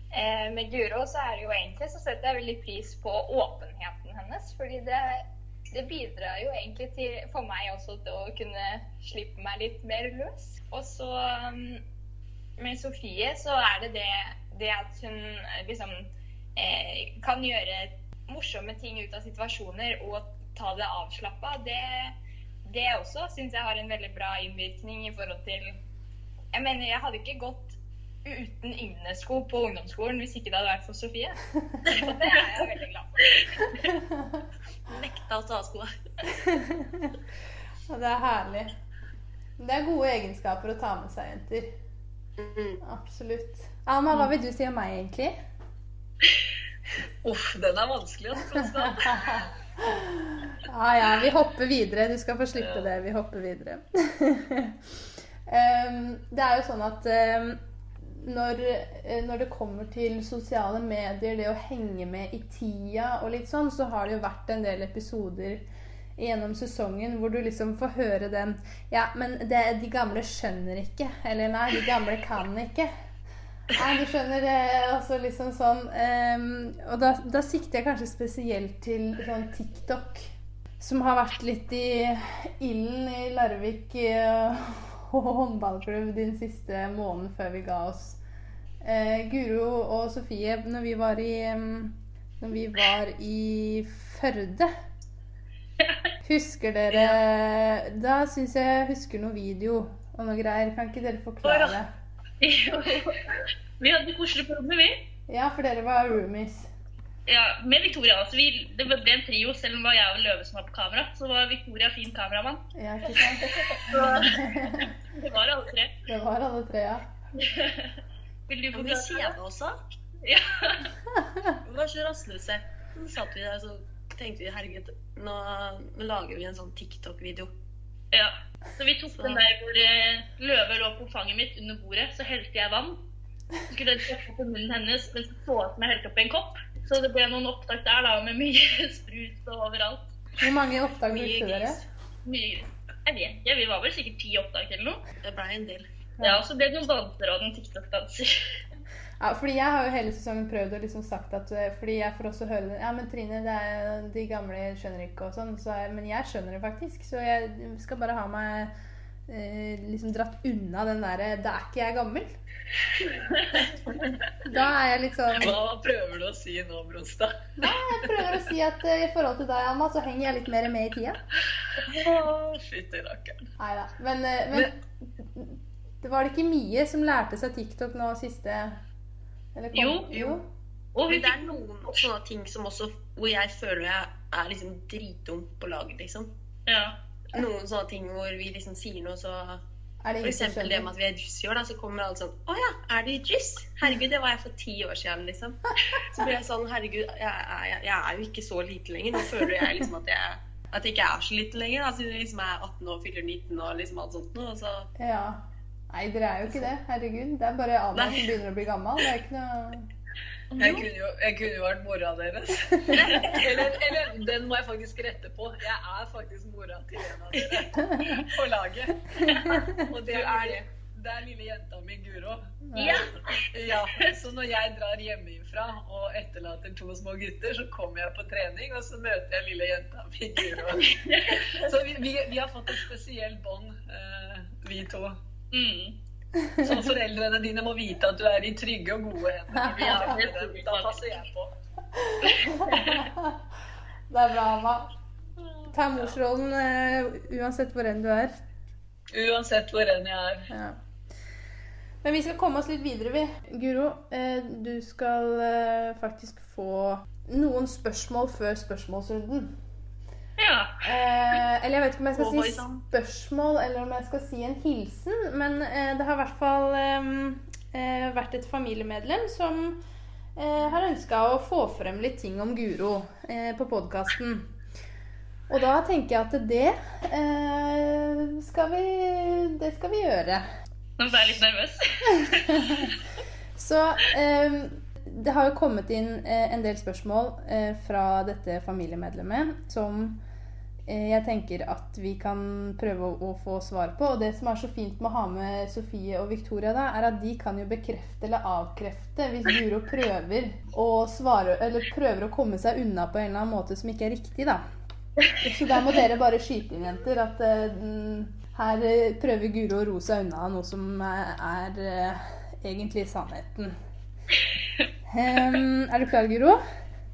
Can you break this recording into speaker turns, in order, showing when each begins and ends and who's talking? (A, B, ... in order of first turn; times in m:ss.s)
0:00.1-0:11.8 A
0:12.6-0:22.1 A
0:22.6-0:25.8 A
0:26.5-0:33.4 A
0:34.0-0:34.4 B
0:34.9-0:35.9 C
0:36.4-0:37.1 B
0:37.9-0:38.7 B
0:39.6-0:41.7 B
0:42.4-0:42.8 C
0:42.8-0:45.3 B
0:47.2-0:49.4 D
0:48.8-1:05.6 B
1:06.2-1:12.9 B
1:13.7-1:28.2 B
1:28.8-1:34.7 B
1:36.2-1:41.9 B
1:41.5-1:41.7 E
1:42.4-1:45.0 E
1:45.3-1:46.7 B
1:47.3-1:55.9 E
1:52.8-1:54.9 B
1:56.1-1:57.0 B
1:57.4-1:57.9 E
1:58.5-1:59.3 E
1:58.7-1:59.8 C
2:00.2-2:00.9 E
2:01.6-2:07.5 C
2:08.1-2:13.0 E
2:09.1-2:09.5 C
2:13.7-2:20.1 E
2:20.4-2:21.8 B
2:21.0-2:21.9 C
2:22.2-2:25.0 E
2:25.2-2:25.8 C
2:26.2-2:26.4 B
2:26.2-2:28.5 E
2:29.2-2:38.7 B
2:39.3-2:42.3 B
2:44.4-2:45.6 B
2:45.4-2:47.4 D
2:47.6-2:51.2 B
2:51.8-2:53.4 D
2:53.6-2:58.8 B
2:59.5-3:00.4 B
2:59.7-3:00.1 E
3:00.1-3:00.4 C
3:00.9-3:02.1 E
3:01.1-3:06.3 C
3:06.7-3:06.9 E
3:07.3-3:09.6 C
3:10.0-3:10.9 B
3:10.2-3:24.9 C
3:25.0-3:29.9 B
3:27.9-3:28.3 C
3:30.6-3:39.0 D
3:32.7-3:33.2 B
3:32.9-3:33.7 C
3:37.8-3:38.2 B
3:39.2-3:40.6 E
3:39.4-3:39.8 B
3:39.9-3:42.5 D
3:42.7-3:43.1 B
3:42.8-3:43.2 E
3:43.5-3:55.2 D
3:43.7-3:44.1 E
3:50.8-3:51.7 E
3:55.5-3:56.0 E
3:56.4-3:56.9 B
3:56.6-4:01.5 D
3:59.7-4:01.0 E
4:02.0-4:03.4 B
4:02.2-4:03.1 E
4:04.1-4:04.9 B
4:05.7-4:08.4 B
4:09.1-4:10.5 D
4:10.5-4:10.8 B
4:12.0-4:19.5 B
4:20.4-4:20.8 E
4:20.8-4:29.8 B
4:22.1-4:22.8 E
4:30.4-4:34.5 B
4:35.5-4:40.4 B
4:41.0-4:42.9 E
4:43.6-4:50.2 B
4:50.9-5:04.6 B
5:05.4-5:13.7 B
5:15.1-5:16.6 B